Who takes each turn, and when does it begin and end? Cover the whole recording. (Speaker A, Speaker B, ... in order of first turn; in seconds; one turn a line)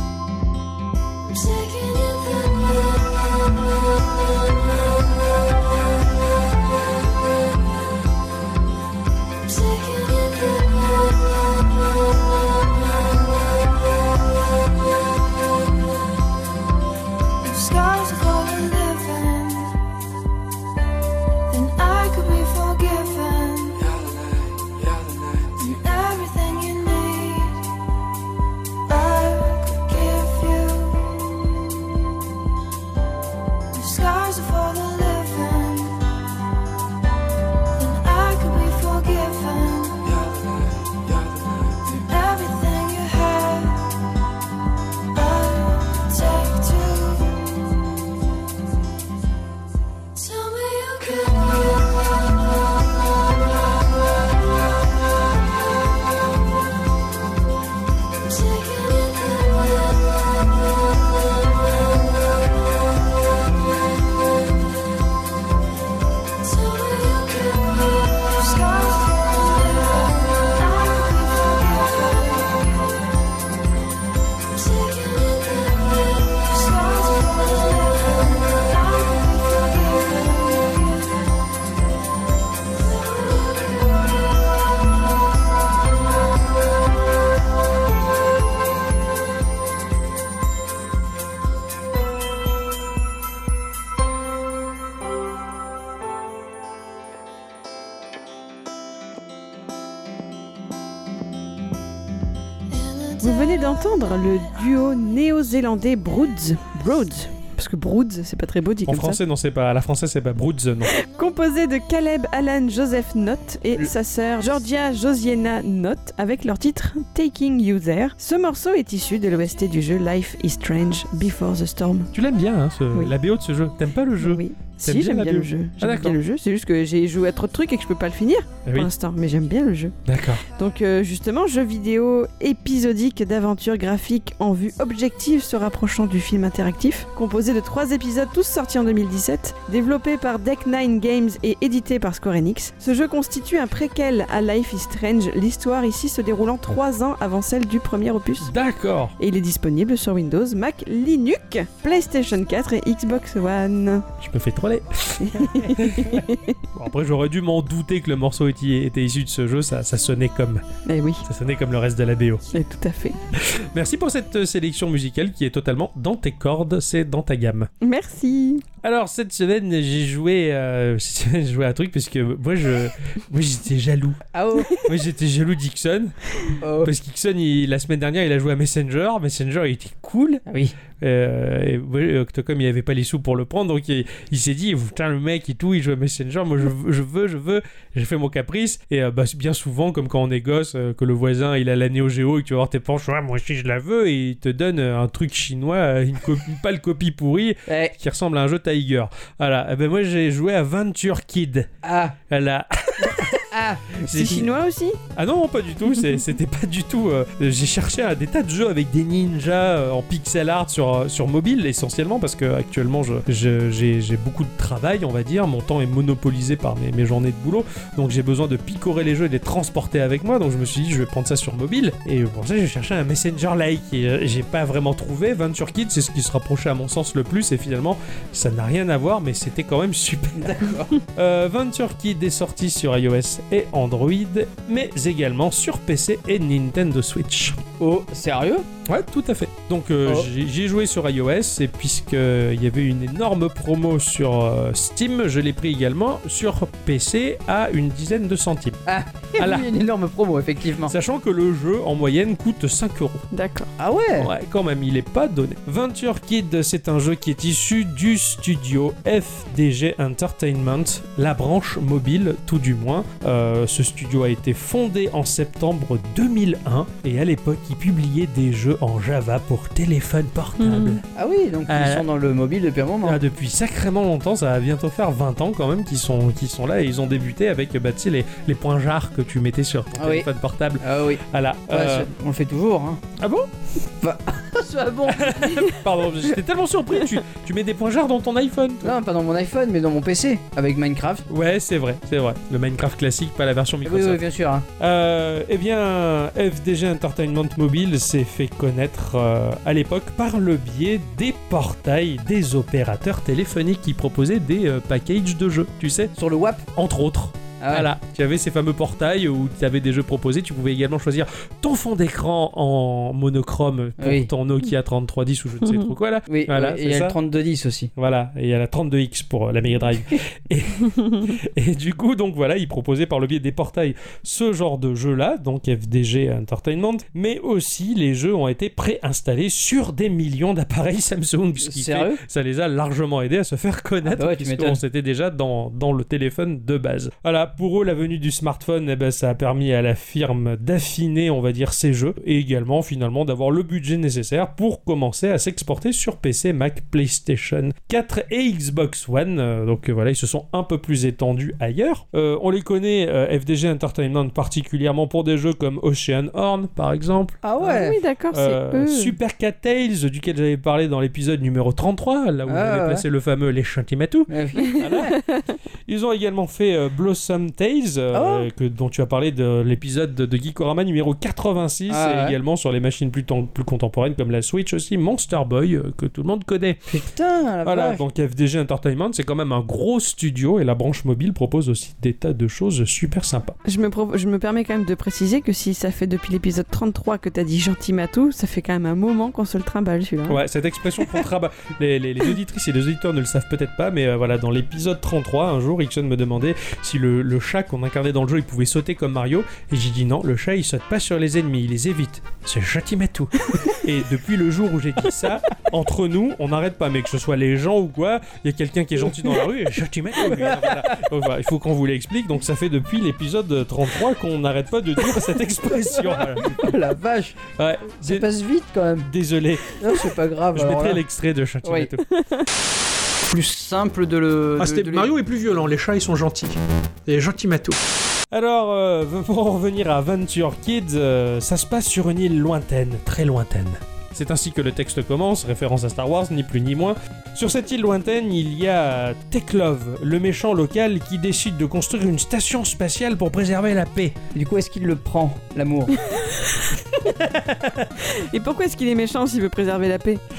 Speaker A: 1.2-4.8
Speaker A: 9.4-11.8
Speaker A: 17.4-19.7
Speaker A: 21.5-27.6
Speaker A: 28.9-31.9
Speaker A: 33.7-36.0
Speaker A: 37.8-44.0
Speaker A: 45.1-47.9
Speaker A: 50.1-53.3
Speaker A: 58.2-60.5
Speaker A: 66.4-73.1
Speaker A: 74.5-81.4
Speaker A: 82.7-84.2
Speaker A: 102.7-104.6
Speaker B: 103.2-109.2
Speaker C: 108.9-110.9
Speaker B: 110.8-122.1
Speaker C: 122.1-126.2
Speaker B: 124.2-148.5
Speaker C: 128.7-128.9
Speaker C: 130.1-130.4
Speaker C: 148.4-149.1
Speaker B: 149.2-154.1
Speaker C: 154.2-160.7
Speaker B: 155.2-156.6
Speaker B: 160.9-161.2
Speaker C: 161.2-162.4
Speaker B: 162.5-163.2
Speaker C: 163.3-167.7
Speaker B: 167.8-168.7
Speaker C: 168.8-174.2
Speaker D: 174.3-174.9
Speaker C: 174.8-176.1
Speaker D: 176.6-176.9
Speaker C: 176.8-180.4
Speaker D: 180.5-180.7
Speaker C: 181.0-201.7
Speaker D: 197.7-197.9
Speaker D: 201.8-202.2
Speaker C: 202.3-203.4
Speaker D: 203.0-204.2
Speaker C: 204.1-204.5
Speaker B: 204.1-205.0
Speaker C: 205.1-237.6
Speaker D: 230.4-230.9
Speaker D: 237.8-238.7
Speaker C: 238.8-248.8
Speaker D: 248.9-250.9
Speaker C: 249.4-249.7
Speaker C: 250.8-253.2
Speaker B: 253.3-253.7
Speaker D: 253.8-254.3
Speaker C: 254.2-271.0
Speaker B: 270.6-271.0
Speaker D: 271.1-273.2
Speaker C: 271.7-272.1
Speaker C: 273.0-282.1
Speaker D: 280.0-280.3
Speaker D: 280.8-283.0
Speaker C: 283.2-283.5
Speaker D: 284.0-285.7
Speaker C: 285.1-288.9
Speaker D: 288.8-291.2
Speaker C: 291.3-294.2
Speaker D: 293.8-294.6
Speaker C: 294.8-306.1
Speaker D: 306.1-306.6
Speaker C: 306.8-317.2
Speaker D: 307.6-307.9
Speaker D: 314.0-314.3
Speaker D: 316.3-317.9
Speaker C: 317.9-357.4
Speaker D: 331.6-332.2
Speaker D: 334.1-334.8
Speaker D: 357.4-358.0
Speaker B: 357.6-359.1
Speaker C: 358.3-365.2
Speaker D: 362.5-363.0
Speaker D: 364.3-365.1
Speaker C: 365.9-376.8
Speaker D: 368.1-368.5
Speaker D: 371.9-372.4
Speaker D: 376.9-378.0
Speaker C: 377.6-383.6
Speaker B: 383.6-390.4
Speaker C: 390.3-416.6
Speaker D: 410.3-411.0
Speaker D: 416.0-417.4
Speaker C: 417.6-418.3
Speaker D: 418.0-419.1
Speaker C: 419.0-419.8
Speaker D: 419.7-421.0
Speaker C: 420.5-422.1
Speaker D: 421.6-421.9
Speaker D: 423.2-425.1
Speaker C: 424.6-427.8
Speaker C: 428.3-444.2
Speaker D: 444.3-446.0
Speaker B: 446.1-446.5
Speaker C: 447.2-447.9
Speaker B: 448.0-450.2